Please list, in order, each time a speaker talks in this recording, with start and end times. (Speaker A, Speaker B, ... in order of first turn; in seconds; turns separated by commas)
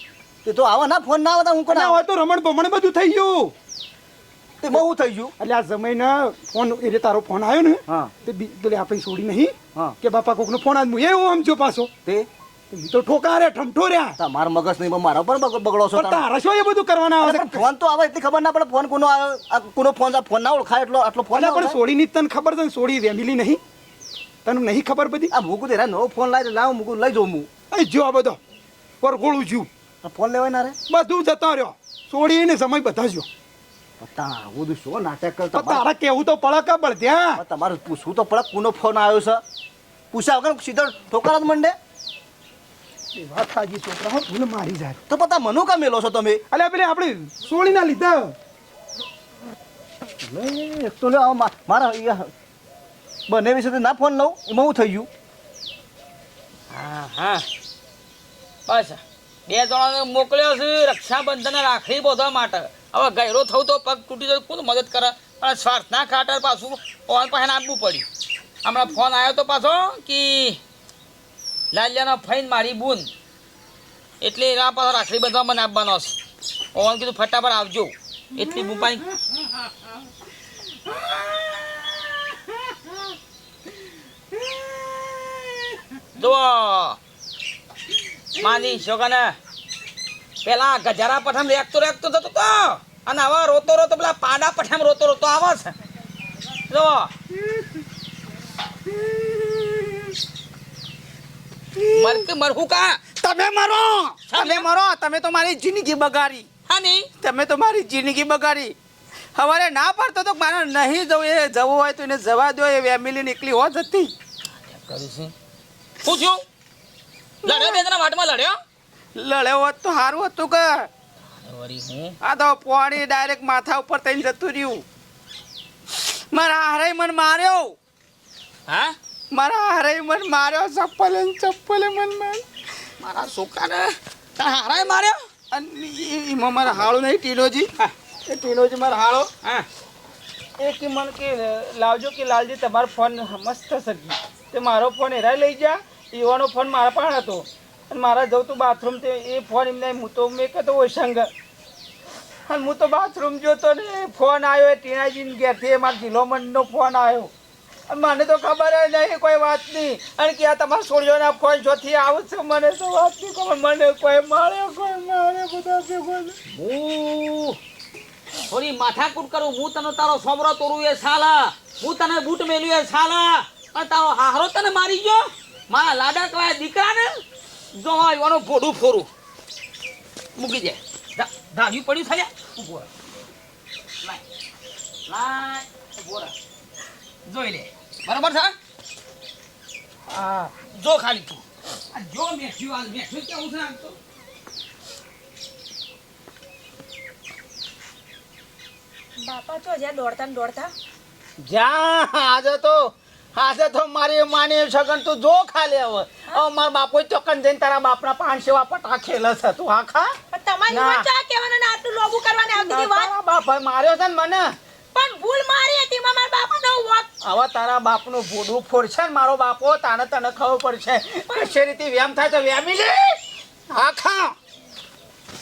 Speaker A: 0.4-2.0, Speaker B: 1.7-3.5, Speaker A: 4.6-5.3, Speaker B: 5.4-11.9, Speaker A: 7.9-8.1, Speaker B: 12.7-14.2, Speaker A: 14.2-16.2, Speaker B: 15.9-17.6, Speaker A: 17.2-21.8, Speaker B: 21.3-23.6, Speaker B: 24.4-25.3, Speaker A: 25.3-27.5, Speaker B: 27.7-28.4, Speaker B: 29.0-29.7, Speaker A: 30.0-30.8, Speaker B: 30.9-33.3, Speaker A: 34.0-35.8, Speaker B: 35.5-37.4, Speaker A: 37.4-39.4, Speaker A: 40.1-41.8, Speaker B: 43.1-45.0, Speaker A: 45.1-46.4, Speaker B: 46.5-48.3, Speaker A: 50.2-52.3, Speaker A: 53.3-55.1, Speaker C: 56.7-57.4, Speaker C: 58.7-68.0, Speaker C: 68.6-70.6, Speaker C: 71.7-73.1, Speaker C: 74.2-76.1, Speaker C: 76.7-79.0, Speaker D: 80.8-83.1, Speaker D: 84.3-85.8, Speaker C: 86.2-87.0, Speaker C: 88.4-89.3, Speaker D: 88.4-88.8, Speaker C: 90.4-95.7, Speaker C: 96.7-97.1, Speaker D: 98.9-100.1, Speaker D: 101.7-102.2, Speaker C: 101.8-103.0, Speaker D: 103.1-106.5, Speaker C: 104.3-104.7, Speaker C: 106.7-107.1, Speaker D: 107.2-108.7, Speaker D: 109.3-114.1, Speaker C: 114.6-115.3, Speaker C: 116.0-116.4, Speaker C: 117.4-118.6, Speaker D: 117.5-117.8, Speaker D: 119.2-120.9, Speaker C: 121.4-122.2, Speaker D: 122.2-124.8, Speaker D: 125.9-127.7, Speaker C: 128.7-128.9, Speaker D: 129.3-132.4, Speaker C: 133.0-135.2, Speaker D: 135.5-137.7, Speaker D: 138.3-139.3, Speaker D: 140.6-151.3, Speaker D: 152.5-157.3, Speaker D: 157.9-166.4, Speaker C: 166.5-167.6, Speaker C: 168.5-177.2, Speaker C: 177.7-179.1, Speaker C: 180.4-182.9, Speaker C: 185.1-186.3, Speaker C: 187.2-188.5, Speaker C: 190.1-191.4, Speaker C: 191.9-193.9, Speaker E: 199.2-200.7, Speaker D: 201.4-210.1, Speaker E: 210.3-213.1, Speaker D: 210.7-211.1, Speaker D: 212.5-214.5, Speaker E: 214.9-217.1, Speaker D: 217.2-223.2, Speaker D: 223.7-224.3